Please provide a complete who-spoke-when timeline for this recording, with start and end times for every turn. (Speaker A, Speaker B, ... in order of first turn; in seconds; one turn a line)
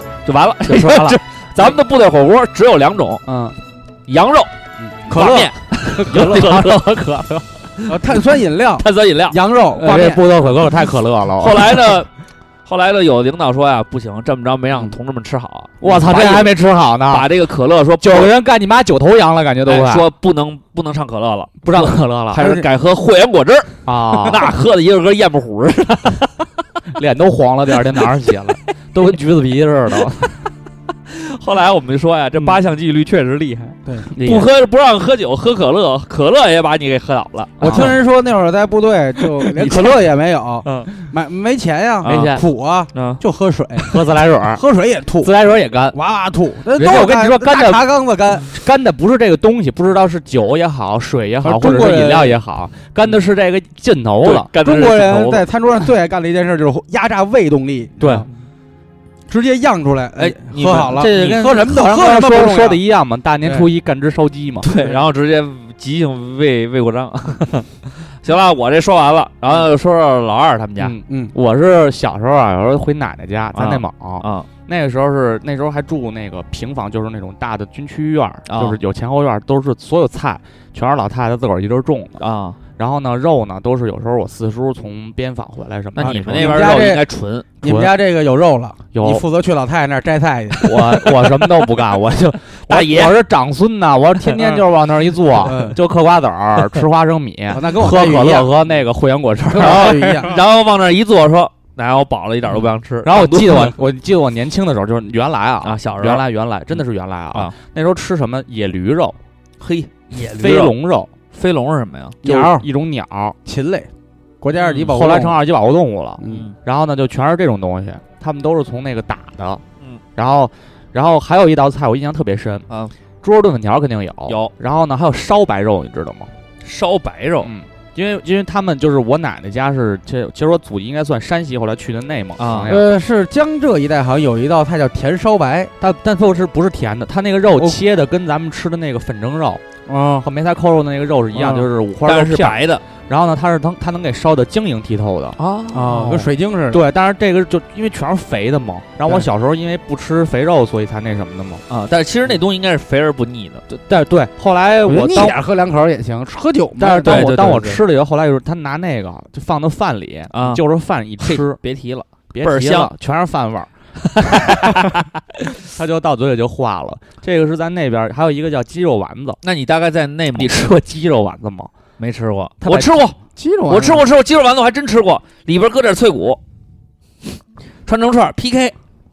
Speaker A: 0.2-3.2
Speaker B: 0.7-1.8
Speaker B: 3.3-3.6
Speaker A: 4.1-4.5
Speaker C: 4.8-5.5
Speaker A: 5.1-6.8
Speaker B: 5.9-7.4
Speaker C: 7.9-10.2
Speaker A: 8.8-9.4
Speaker B: 9.8-12.0
Speaker A: 11.4-12.1
Speaker A: 12.7-16.6
Speaker B: 15.8-17.3
Speaker A: 17.1-18.3
Speaker B: 18.0-20.1
Speaker A: 19.6-26.3
Speaker B: 21.6-22.5
Speaker C: 22.4-22.6
Speaker B: 23.9-24.5
Speaker B: 26.9-30.4
Speaker A: 31.1-37.9
Speaker B: 34.1-34.5
Speaker B: 37.6-38.0
Speaker C: 37.6-45.3
Speaker A: 39.6-39.9
Speaker A: 40.6-40.9
Speaker A: 42.0-42.4
Speaker B: 42.0-42.4
Speaker A: 42.9-43.2
Speaker B: 43.9-44.6
Speaker B: 45.2-46.0
Speaker C: 45.9-48.5
Speaker B: 46.7-47.9
Speaker B: 48.5-55.2
Speaker C: 51.4-52.4
Speaker A: 54.2-55.4
Speaker C: 54.3-58.3
Speaker B: 58.0-58.3
Speaker C: 59.3-62.8
Speaker A: 60.2-61.4
Speaker B: 60.9-64.7
Speaker A: 64.6-67.7
Speaker A: 68.2-71.0
Speaker B: 70.8-82.2
Speaker C: 71.1-71.3
Speaker A: 73.5-74.5
Speaker A: 78.5-78.8
Speaker A: 82.2-82.6
Speaker B: 82.7-86.9
Speaker A: 86.0-87.5
Speaker C: 86.0-87.0
Speaker B: 87.6-88.0
Speaker C: 87.6-90.9
Speaker B: 88.9-89.2
Speaker B: 90.6-100.3
Speaker A: 92.7-93.2
Speaker C: 95.4-95.8
Speaker C: 97.5-98.5
Speaker C: 99.5-100.4
Speaker A: 99.6-103.8
Speaker B: 103.0-109.2
Speaker A: 105.6-106.2
Speaker A: 109.6-110.7
Speaker B: 110.2-111.1
Speaker A: 111.3-112.2
Speaker C: 112.2-112.7
Speaker B: 112.2-113.4
Speaker C: 113.5-113.9
Speaker C: 114.4-115.4
Speaker A: 114.6-115.0
Speaker B: 114.7-119.6
Speaker C: 116.2-116.5
Speaker A: 116.3-116.5
Speaker B: 120.2-122.7
Speaker A: 122.7-122.9
Speaker B: 123.2-126.3
Speaker A: 124.3-124.5
Speaker A: 126.6-127.5
Speaker B: 127.4-132.9
Speaker A: 132.4-132.7
Speaker C: 132.7-135.7
Speaker B: 135.8-139.6
Speaker C: 139.9-140.3
Speaker B: 140.2-145.4
Speaker C: 141.4-141.7
Speaker A: 142.0-142.8
Speaker A: 145.4-146.2
Speaker C: 145.7-146.8
Speaker B: 146.7-151.6
Speaker A: 151.7-153.6
Speaker B: 153.7-155.4
Speaker C: 154.9-157.7
Speaker B: 156.8-161.6
Speaker A: 157.0-157.8
Speaker A: 160.3-160.6
Speaker A: 161.2-162.9
Speaker B: 162.3-163.7
Speaker A: 164.1-165.1
Speaker B: 164.2-165.0
Speaker B: 165.6-169.4
Speaker A: 169.4-170.7
Speaker B: 170.3-171.7
Speaker A: 172.0-173.2
Speaker B: 172.6-173.1
Speaker C: 173.4-174.1
Speaker A: 173.7-176.4
Speaker A: 177.9-178.8